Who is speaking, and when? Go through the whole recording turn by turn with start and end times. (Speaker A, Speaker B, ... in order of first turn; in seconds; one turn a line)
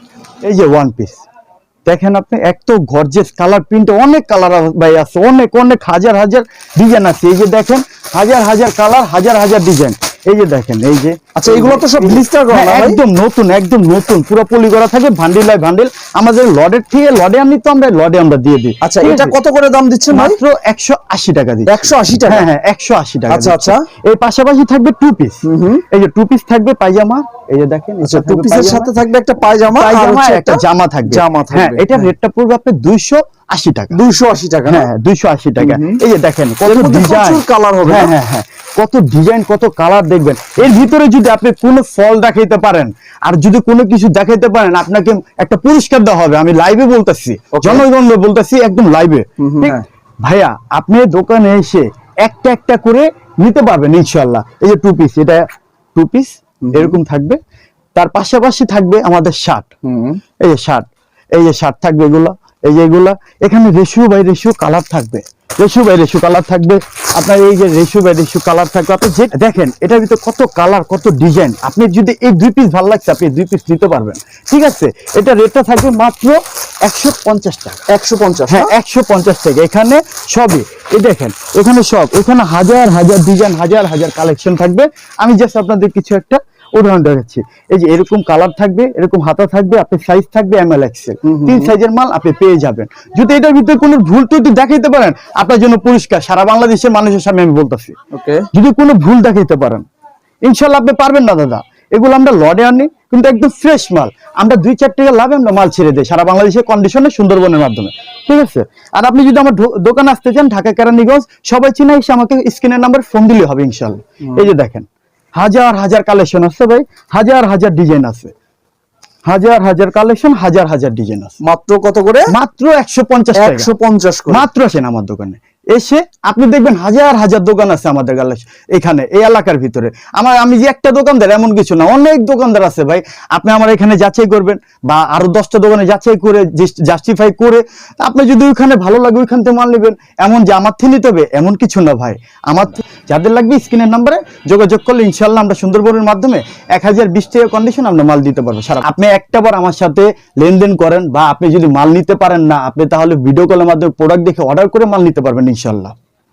Speaker A: 0.4-1.2
Speaker A: 1.9-19.4
Speaker B: 11.4-13.0
Speaker B: 18.8-20.4
Speaker A: 20.1-28.9
Speaker B: 21.7-22.5
Speaker B: 23.3-23.8
Speaker B: 25.4-25.8
Speaker B: 28.0-32.1
Speaker A: 29.7-34.0
Speaker B: 33.9-34.9
Speaker A: 34.7-55.4
Speaker B: 35.6-36.0
Speaker B: 36.6-38.1
Speaker B: 47.5-47.9
Speaker B: 49.4-49.8
Speaker A: 56.0-57.4
Speaker B: 56.6-57.0
Speaker A: 58.0-59.7
Speaker B: 59.9-60.2
Speaker A: 60.5-60.9
Speaker A: 61.4-77.8
Speaker B: 77.9-78.7
Speaker A: 78.5-98.0
Speaker B: 91.2-91.7
Speaker B: 98.1-98.5
Speaker A: 98.5-99.8
Speaker A: 100.5-118.3
Speaker A: 119.3-121.3
Speaker B: 121.4-122.3
Speaker A: 122.3-123.7
Speaker B: 123.3-124.5
Speaker A: 124.3-155.9